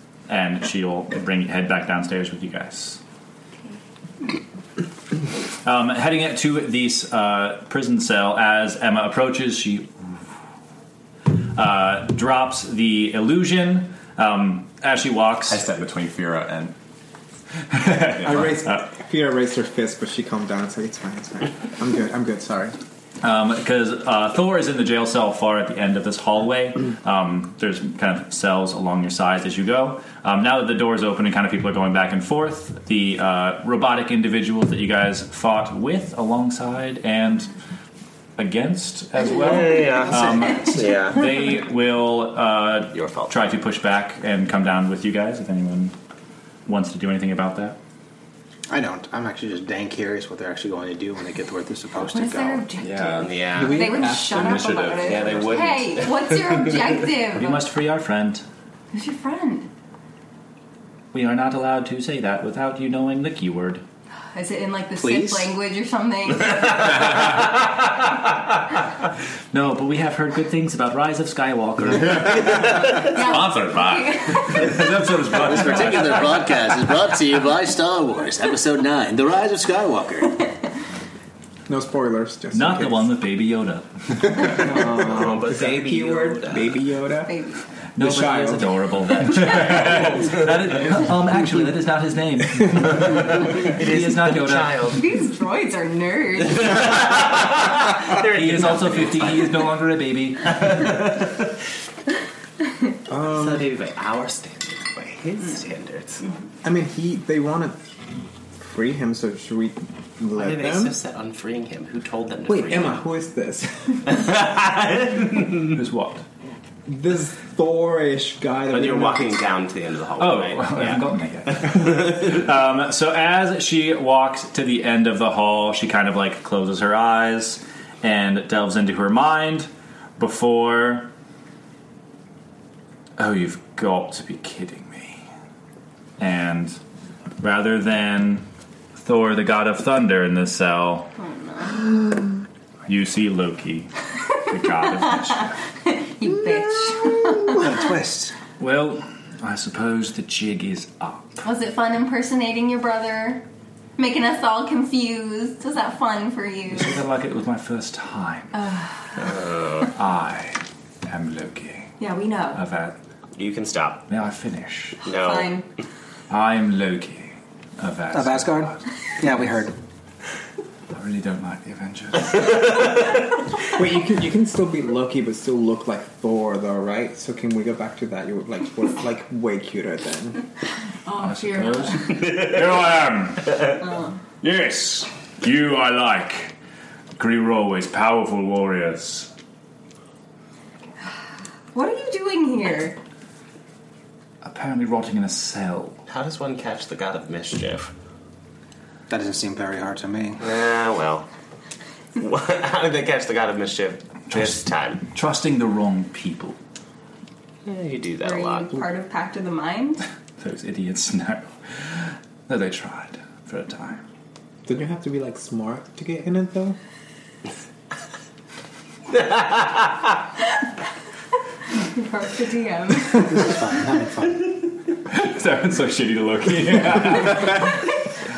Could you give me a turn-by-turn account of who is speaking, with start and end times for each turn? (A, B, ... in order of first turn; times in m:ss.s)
0:00.3-0:03.0 A
0:05.6-0:10.3 A
0:11.5-0:15.6 A
0:15.5-0:16.7 B
0:17.7-0:18.8 A
0:18.1-0:18.5 B
0:18.2-0:22.8 C
0:23.2-0:37.5 A
0:38.4-0:45.9 A
0:39.2-0:41.2 D
0:39.9-0:41.0 E
0:42.9-0:43.4 D
0:46.6-0:47.8 A
0:48.7-0:52.6 E
0:52.0-0:57.7 F
0:52.8-0:55.7 B
0:53.1-0:54.0 D
0:53.5-0:54.7 C
0:55.0-0:56.4 D
0:57.4-0:58.4 A
0:58.9-0:59.7 F
1:01.1-1:03.8 A
1:04.3-1:07.1 F
1:05.0-1:05.6 E
1:09.5-1:12.6 A
1:13.0-1:14.4 F
1:13.1-1:14.7 B
1:14.2-1:16.4 A
1:15.3-1:20.5 E
1:21.7-1:23.1 C
1:22.5-1:24.5 A
1:24.3-1:27.4 C
1:24.5-1:26.8 D
1:27.2-1:27.6 F
1:27.9-1:34.8 A
1:28.0-1:28.8 C
1:29.3-1:30.4 D
1:33.4-1:35.1 D
1:34.9-1:36.9 F
1:36.4-1:39.7 D
1:38.2-1:40.9 A
1:40.4-1:41.5 D
1:43.1-1:43.6 C
1:43.1-1:46.3 D
1:46.6-1:47.8 C
1:48.6-1:51.0 C
1:50.4-1:53.0 D
1:52.5-1:54.2 C
1:54.0-1:55.7 D
1:55.6-1:56.2 A
1:56.8-1:59.5 C
1:58.7-2:02.4 D
2:00.2-2:11.1 A
2:13.2-2:15.2 A
2:16.2-2:16.8 A
2:17.4-2:21.1 A
2:21.2-2:21.8 F
2:22.9-2:25.5 A
2:25.4-2:27.8 F
2:27.0-2:28.3 E
2:28.6-2:31.4 A
2:31.4-2:33.4 F
2:34.0-2:37.0 F
2:36.7-2:38.5 A
2:38.5-2:39.3 F
2:39.2-2:39.9 D
2:39.9-2:41.9 A
2:42.0-2:42.6 F
2:42.5-2:43.0 A
2:43.3-2:44.0 D
2:44.1-2:45.0 A
2:45.0-2:45.6 D
2:45.0-2:45.6 F
2:46.3-2:48.8 A
2:48.1-2:49.7 E
2:50.9-2:52.8 A
2:53.7-3:00.4 C
3:01.0-3:02.3 F
3:01.2-3:03.6 A
3:03.8-3:04.2 F
3:04.4-3:06.6 A
3:07.2-3:09.3 A
3:11.7-3:13.0 F
3:14.4-3:16.0 A
3:16.0-3:17.9 D
3:19.1-3:20.4 E
3:20.4-3:21.3 D
3:22.2-3:25.0 D
3:24.3-3:26.6 A
3:27.6-3:28.8 D
3:28.2-3:30.0 F
3:30.4-3:34.0 A
3:34.6-3:36.8 C
3:39.2-3:39.7 D
3:41.7-3:43.7 F
3:43.1-3:44.4 E
3:45.0-3:47.8 A